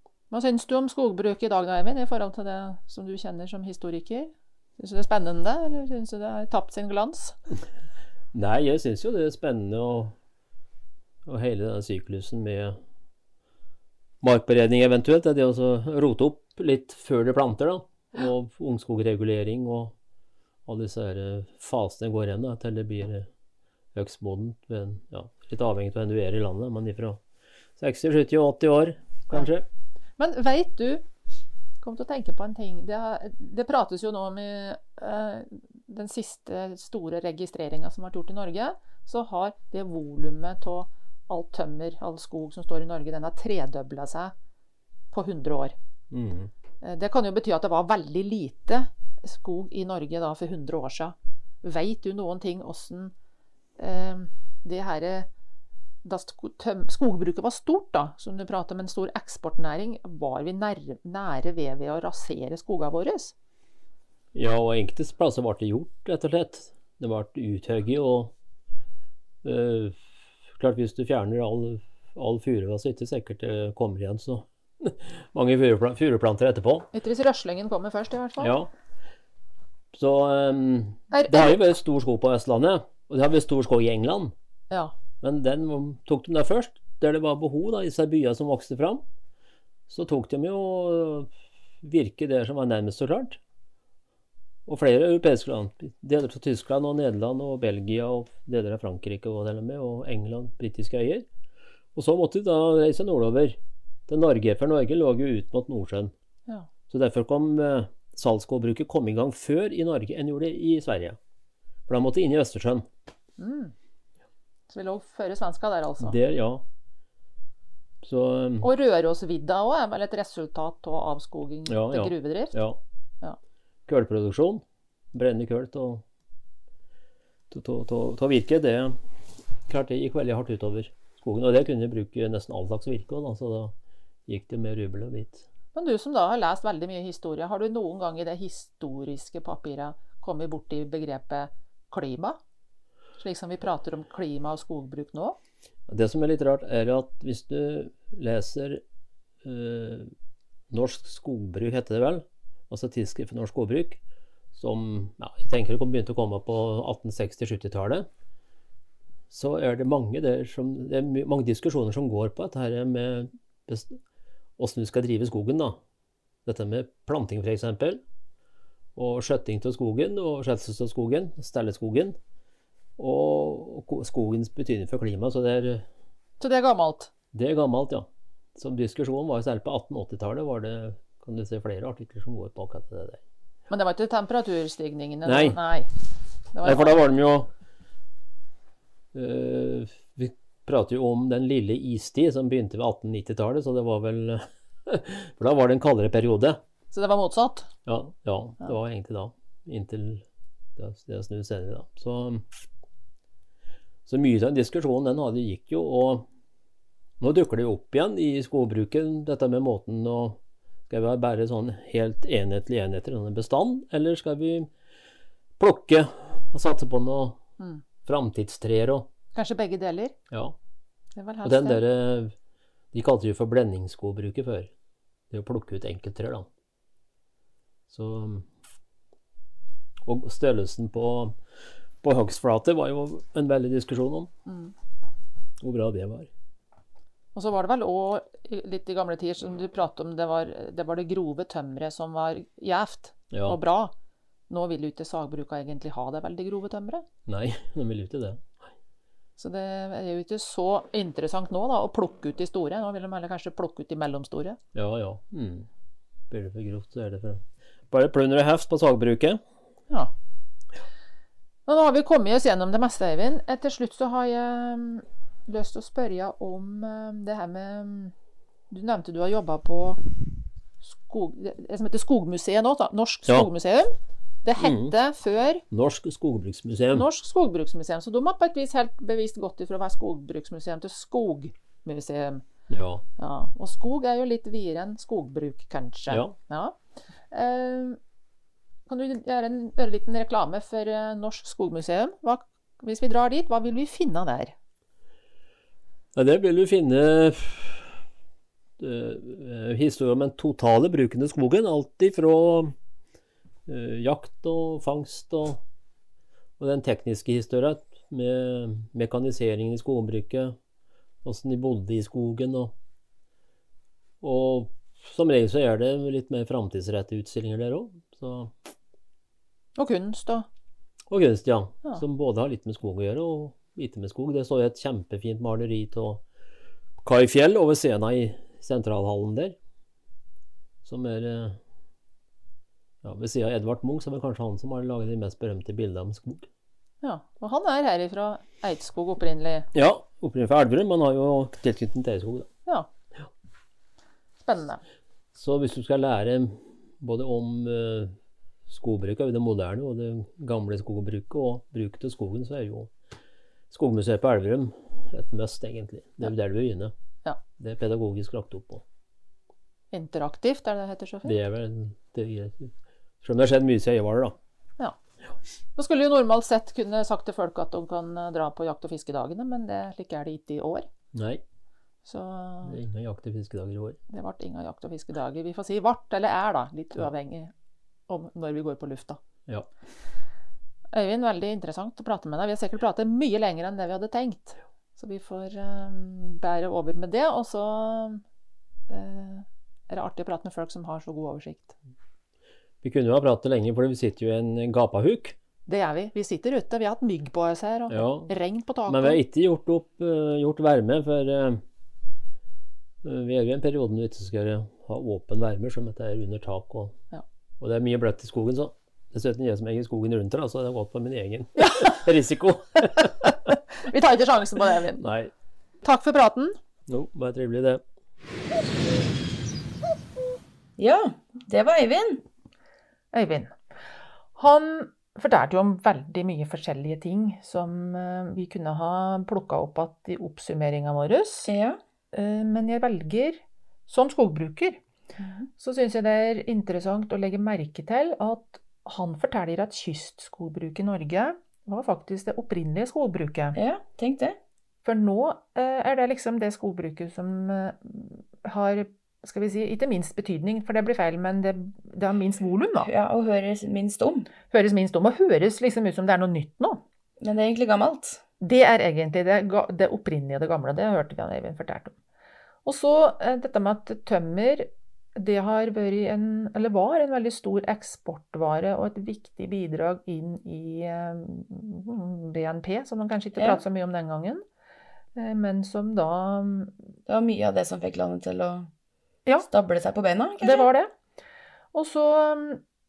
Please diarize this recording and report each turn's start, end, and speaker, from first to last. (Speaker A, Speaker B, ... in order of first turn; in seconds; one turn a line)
Speaker A: 0.3-7.4
Speaker B: 8.3-10.1
Speaker B: 11.2-12.8
Speaker B: 14.2-19.9
Speaker B: 20.6-23.3
Speaker B: 23.9-27.2
Speaker B: 27.8-29.7
Speaker A: 30.2-31.1
Speaker A: 31.8-44.3
Speaker A: 45.1-45.8
Speaker B: 46.1-46.5
Speaker A: 46.8-53.1
Speaker A: 53.8-55.3
Speaker A: 56.0-63.3
Speaker B: 64.3-68.3
Speaker B: 69.4-70.0
Speaker B: 70.5-76.9
Speaker A: 76.9-78.5
Speaker B: 78.4-78.7
Speaker B: 79.9-84.3
Speaker A: 81.1-81.5
Speaker B: 85.2-89.0
Speaker B: 89.9-91.3
Speaker B: 91.8-93.4
Speaker B: 94.7-101.3
Speaker B: 101.9-106.1
Speaker B: 106.9-111.2
Speaker B: 111.9-112.9
Speaker A: 113.4-113.7
Speaker A: 114.7-116.2
Speaker B: 116.0-116.6
Speaker B: 118.0-118.7
Speaker A: 118.6-122.6
Speaker B: 121.7-122.8
Speaker B: 123.8-126.0
Speaker B: 127.5-129.0
Speaker B: 129.7-133.7
Speaker B: 134.3-135.4
Speaker A: 135.7-142.4
Speaker A: 143.2-145.4
Speaker B: 145.9-148.8
Speaker B: 149.4-150.1
Speaker B: 150.7-154.0
Speaker B: 154.5-158.1
Speaker B: 159.3-164.0
Speaker B: 164.6-165.8
Speaker B: 166.4-168.0
Speaker B: 168.9-172.2
Speaker B: 173.0-175.9
Speaker A: 176.4-177.1
Speaker B: 177.3-183.2
Speaker A: 183.7-185.9
Speaker B: 185.2-185.6
Speaker A: 186.5-187.0
Speaker B: 186.6-187.5
Speaker B: 189.1-196.6
Speaker A: 196.9-197.7
Speaker B: 197.8-200.2
Speaker B: 200.8-202.5
Speaker B: 204.1-206.3
Speaker B: 207.2-214.7
Speaker B: 215.6-217.4
Speaker A: 217.6-217.8
Speaker B: 218.0-219.1
Speaker A: 219.3-220.1
Speaker B: 220.3-220.6
Speaker A: 221.1-221.8
Speaker B: 221.4-222.3
Speaker B: 222.9-224.7
Speaker B: 225.3-226.5
Speaker B: 227.9-228.5
Speaker B: 230.0-231.4
Speaker B: 232.0-234.3
Speaker A: 234.4-234.7
Speaker B: 235.6-236.3
Speaker A: 237.3-243.9
Speaker B: 243.3-243.6
Speaker A: 244.5-247.1
Speaker B: 247.2-248.6
Speaker A: 249.4-254.6
Speaker B: 254.7-255.7
Speaker B: 256.3-259.4
Speaker A: 261.7-268.1
Speaker A: 268.7-270.0
Speaker A: 270.8-275.6
Speaker B: 274.6-274.9
Speaker B: 275.7-277.1
Speaker A: 276.9-282.4
Speaker B: 282.7-283.0
Speaker A: 283.2-286.8
Speaker B: 286.1-286.3
Speaker A: 287.3-288.0
Speaker A: 288.9-294.5
Speaker B: 296.1-298.0
Speaker B: 298.8-302.7
Speaker B: 303.7-305.6
Speaker B: 306.6-310.6
Speaker B: 311.2-312.7
Speaker B: 314.2-318.5
Speaker A: 319.8-320.5
Speaker B: 321.1-326.2
Speaker B: 327.0-329.6
Speaker B: 330.8-331.6
Speaker B: 333.0-336.5
Speaker A: 337.0-339.7
Speaker B: 339.7-342.5
Speaker A: 344.4-344.8
Speaker B: 345.3-348.1
Speaker B: 348.7-352.9
Speaker B: 353.7-356.9
Speaker B: 357.6-358.8
Speaker A: 359.9-361.4
Speaker B: 361.2-364.4
Speaker A: 365.8-370.9
Speaker B: 371.1-371.4
Speaker A: 372.0-372.8
Speaker B: 372.6-374.0
Speaker A: 374.1-377.5
Speaker A: 378.1-379.2
Speaker A: 380.9-388.2
Speaker A: 388.9-391.8
Speaker B: 392.8-395.4
Speaker A: 395.7-399.2
Speaker B: 397.9-398.3
Speaker B: 398.9-401.6
Speaker B: 403.0-407.0
Speaker B: 407.6-413.5
Speaker A: 411.6-412.1
Speaker A: 413.0-415.0
Speaker B: 415.0-415.3
Speaker A: 415.8-416.6
Speaker B: 416.9-417.8
Speaker C: 420.8-422.2
Speaker A: 423.1-423.6
Speaker A: 424.4-431.5
Speaker C: 431.4-431.8
Speaker A: 432.1-434.8
Speaker C: 435.2-435.5
Speaker A: 435.6-443.6
Speaker C: 443.5-444.4
Speaker A: 444.8-452.9
Speaker C: 452.8-454.3
Speaker A: 454.5-456.8
Speaker C: 457.2-458.2
Speaker A: 458.4-461.9
Speaker A: 462.6-474.4
Speaker C: 473.4-473.6
Speaker A: 475.1-476.7
Speaker C: 477.1-478.7
Speaker C: 479.5-480.7
Speaker A: 480.4-480.9
Speaker A: 481.7-482.6